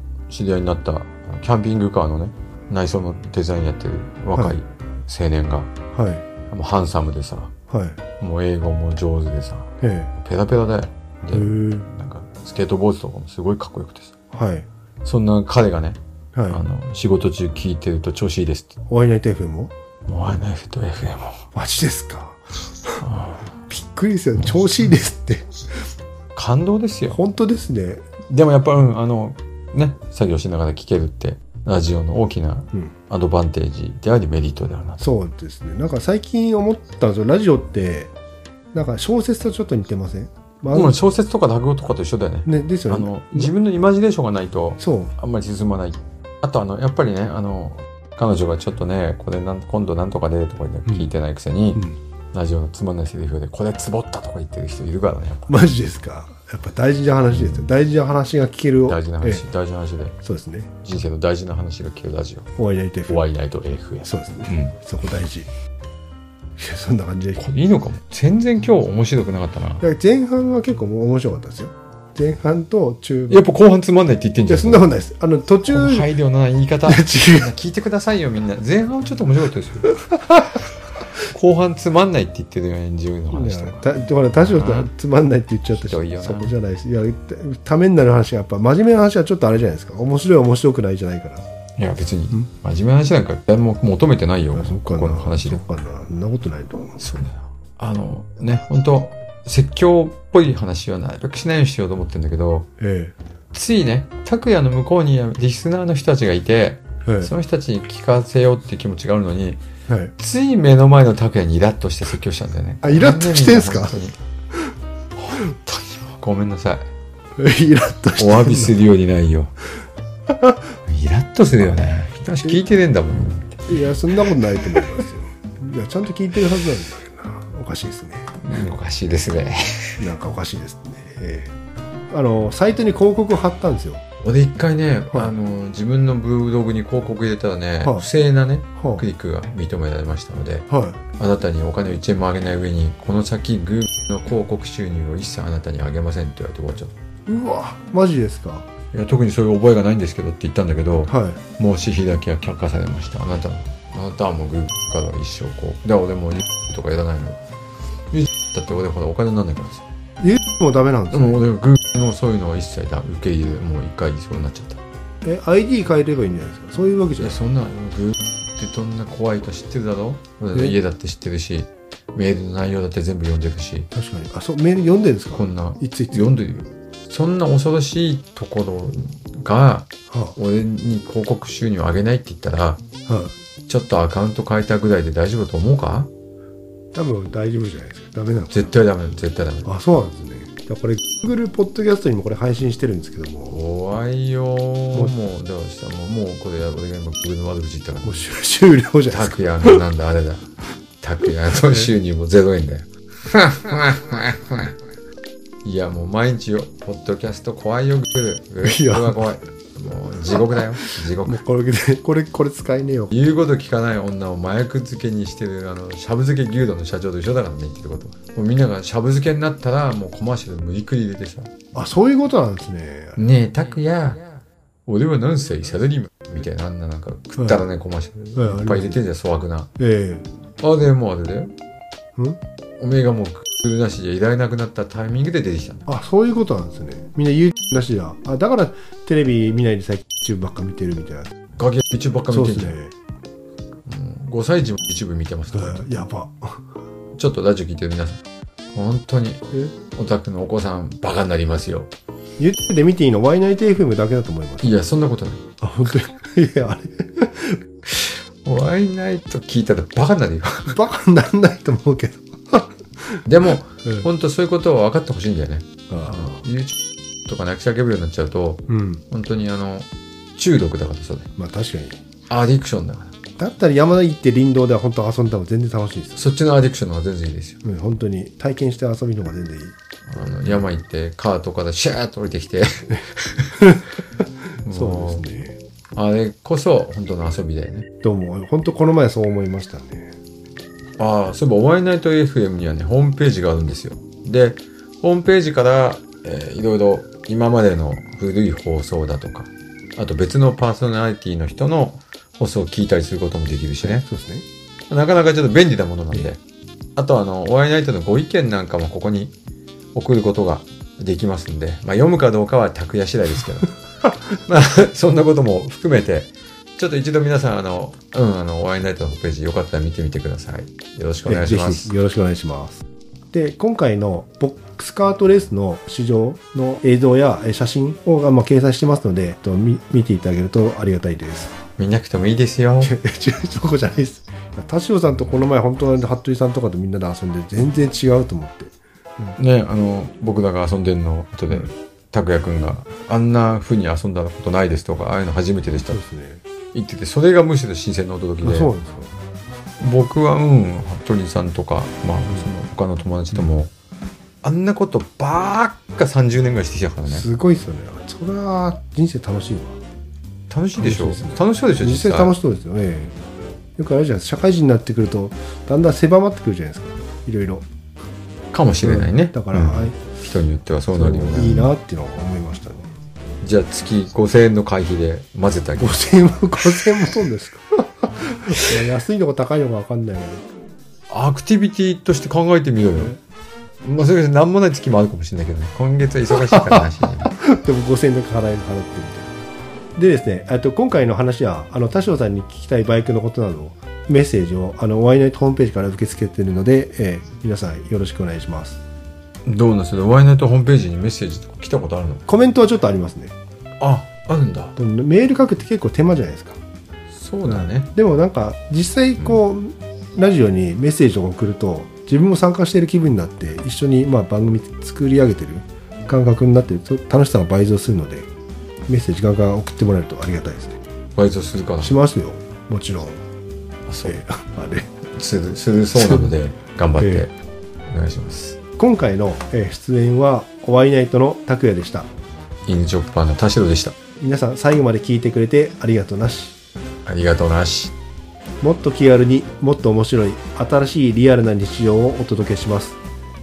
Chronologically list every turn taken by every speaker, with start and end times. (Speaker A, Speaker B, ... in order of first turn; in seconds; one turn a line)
Speaker A: 0.3-5.7
Speaker B: 5.9-6.2
Speaker A: 6.5-7.5
Speaker B: 7.7-8.0
Speaker A: 8.2-14.1
Speaker B: 9.8-10.1
Speaker B: 11.3-11.9
Speaker B: 14.3-14.7
Speaker A: 15.0-18.7
Speaker B: 16.4-16.6
Speaker B: 18.9-19.7
Speaker A: 20.1-21.4
Speaker B: 21.5-23.0
Speaker A: 23.0-23.5
Speaker B: 23.7-25.5
Speaker A: 26.4-27.2
Speaker B: 27.1-28.0
Speaker A: 28.3-35.1
Speaker B: 35.0-38.1
Speaker B: 38.7-41.0
Speaker A: 40.7-55.6
Speaker B: 42.4-43.5
Speaker B: 44.8-45.1
Speaker B: 55.5-59.4
Speaker A: 57.3-57.6
Speaker A: 58.9-60.2
Speaker B: 60.2-60.7
Speaker A: 60.8-62.5
Speaker B: 62.6-63.2
Speaker A: 63.1-64.7
Speaker B: 64.0-65.5
Speaker B: 66.6-67.4
Speaker A: 67.4-69.8
Speaker B: 69.8-73.5
Speaker A: 73.3-74.9
Speaker B: 74.5-76.1
Speaker A: 75.7-79.9
Speaker B: 76.9-77.5
Speaker B: 80.0-80.6
Speaker A: 81.2-84.9
Speaker B: 83.3-91.5
Speaker A: 85.8-86.5
Speaker A: 91.8-95.6
Speaker B: 94.5-97.0
Speaker A: 97.0-102.7
Speaker B: 102.8-103.2
Speaker A: 103.5-109.6
Speaker B: 107.0-107.3
Speaker B: 109.9-110.1
Speaker A: 110.2-114.2
Speaker B: 112.8-114.0
Speaker A: 115.2-116.9
Speaker B: 117.4-118.8
Speaker A: 118.2-119.5
Speaker B: 120.3-120.6
Speaker A: 120.9-123.8
Speaker B: 123.7-128.3
Speaker A: 128.4-130.0
Speaker B: 130.0-131.5
Speaker B: 132.1-134.0
Speaker A: 134.2-146.9
Speaker B: 138.8-139.0
Speaker B: 140.7-141.0
Speaker B: 147.3-148.7
Speaker A: 148.9-157.4
Speaker B: 151.1-151.4
Speaker A: 158.1-159.8
Speaker B: 160.2-161.4
Speaker A: 161.1-164.8
Speaker B: 165.2-167.4
Speaker A: 167.2-173.9
Speaker B: 173.9-176.3
Speaker A: 175.3-182.8
Speaker B: 180.1-180.3
Speaker B: 183.1-183.3
Speaker A: 183.7-186.1
Speaker B: 186.9-188.7
Speaker A: 188.5-189.7
Speaker B: 189.6-193.6
Speaker A: 193.5-198.3
Speaker B: 198.0-199.8
Speaker A: 199.1-200.5
Speaker A: 201.0-204.8
Speaker B: 201.5-201.9
Speaker A: 205.6-211.4
Speaker B: 208.6-209.3
Speaker B: 210.3-213.1
Speaker A: 213.1-221.5
Speaker B: 221.7-223.2
Speaker A: 223.2-224.3
Speaker A: 224.8-229.7
Speaker B: 227.4-227.6
Speaker B: 228.3-229.0
Speaker B: 229.8-230.3
Speaker A: 230.6-231.5
Speaker A: 232.8-235.9
Speaker B: 235.9-241.3
Speaker A: 241.6-242.8
Speaker B: 242.3-242.9
Speaker A: 243.8-245.9
Speaker B: 245.5-246.6
Speaker A: 247.2-248.2
Speaker A: 248.8-251.9
Speaker B: 252.4-254.7
Speaker A: 254.6-255.4
Speaker B: 255.6-257.6
Speaker A: 257.9-260.8
Speaker B: 260.7-263.2
Speaker A: 263.2-271.3
Speaker B: 265.9-266.4
Speaker B: 268.7-269.0
Speaker B: 271.4-272.0
Speaker A: 272.3-273.1
Speaker B: 273.4-276.2
Speaker A: 276.2-277.6
Speaker B: 277.6-279.8
Speaker A: 280.1-283.6
Speaker B: 283.6-283.9
Speaker A: 284.6-285.2
Speaker B: 284.6-285.6
Speaker A: 285.9-287.9
Speaker B: 288.0-290.1
Speaker A: 291.0-304.1
Speaker B: 303.8-304.5
Speaker A: 304.9-306.4
Speaker A: 307.0-309.3
Speaker A: 309.9-321.9
Speaker B: 321.2-331.6
Speaker A: 331.8-332.9
Speaker B: 332.8-339.4
Speaker A: 339.4-346.0
Speaker B: 345.9-346.4
Speaker A: 346.7-348.7
Speaker B: 348.4-349.1
Speaker A: 349.8-353.7
Speaker A: 354.4-357.2
Speaker B: 357.1-359.8
Speaker A: 360.5-362.3
Speaker B: 360.8-363.2
Speaker B: 363.8-367.7
Speaker A: 368.5-371.8
Speaker B: 368.8-370.0
Speaker B: 370.9-372.9
Speaker A: 373.4-376.0
Speaker B: 375.8-380.5
Speaker A: 381.1-383.2
Speaker A: 383.8-387.3
Speaker B: 386.3-389.3
Speaker B: 390.0-398.8
Speaker A: 399.5-402.2
Speaker B: 402.3-403.3
Speaker A: 403.8-404.8
Speaker B: 404.8-406.6
Speaker A: 407.1-407.9
Speaker B: 407.5-418.3
Speaker B: 418.9-420.8
Speaker A: 421.2-422.0
Speaker B: 421.8-423.2
Speaker A: 423.9-424.2
Speaker B: 424.0-424.9
Speaker A: 425.1-427.3
Speaker B: 426.0-426.3
Speaker B: 427.0-427.2
Speaker A: 427.9-428.6
Speaker B: 428.8-432.1
Speaker A: 432.7-434.0
Speaker B: 434.2-436.6
Speaker A: 437.1-437.9
Speaker B: 438.6-443.0